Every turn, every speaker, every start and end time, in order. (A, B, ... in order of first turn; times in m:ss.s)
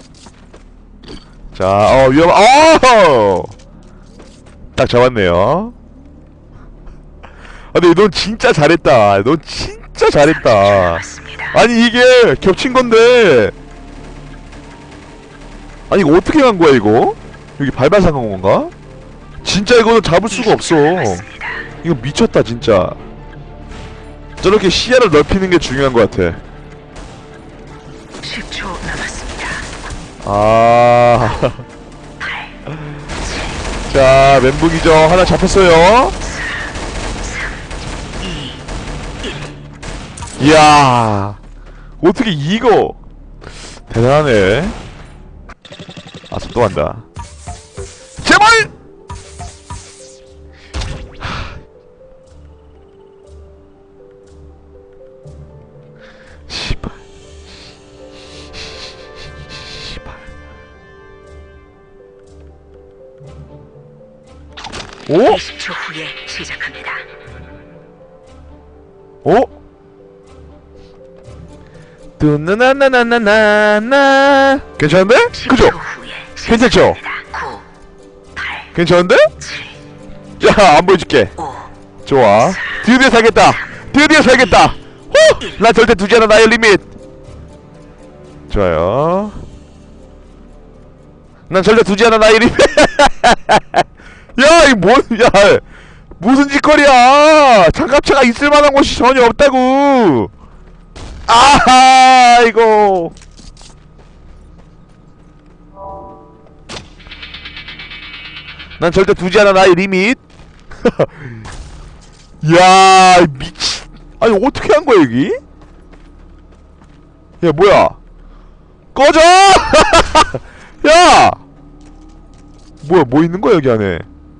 0:01.5-0:03.5 A
0:04.8-0:05.7 A
0:07.7-0:13.5 A
0:10.2-0:11.5 B
0:15.9-0:18.7 A
0:19.4-0:21.2 A
0:20.3-0:21.7 B
0:21.8-0:23.0 A
0:24.4-0:26.4 A
0:28.2-0:29.7 B
0:30.2-0:31.6 A
0:33.9-0:36.2 A
0:40.4-0:41.4 A
0:42.0-0:43.0 A
0:43.9-0:44.8 A
0:46.3-0:47.0 A
0:48.2-0:48.7 A
0:56.5-0:57.0 A
0:59.7-1:00.1 A
1:05.1-1:05.4 A
1:05.3-1:07.0 B
1:09.2-1:09.5 A
1:12.2-1:15.8 A
1:15.4-1:17.6 B
1:16.4-1:17.0 A
1:18.4-1:18.7 B
1:18.7-1:19.3 A
1:19.4-1:19.7 B
1:20.4-1:21.4 A
1:22.0-1:26.8 A
1:28.5-1:29.4 A
1:31.5-1:33.8 A
1:34.4-1:35.6 A
1:36.2-1:40.3 A
1:41.3-1:43.1 A
1:48.8-1:50.2 A
1:50.8-1:51.4 A
1:52.4-1:55.4 A
1:57.4-1:58.0 A
1:58.9-2:01.4 A
2:02.8-2:04.1 A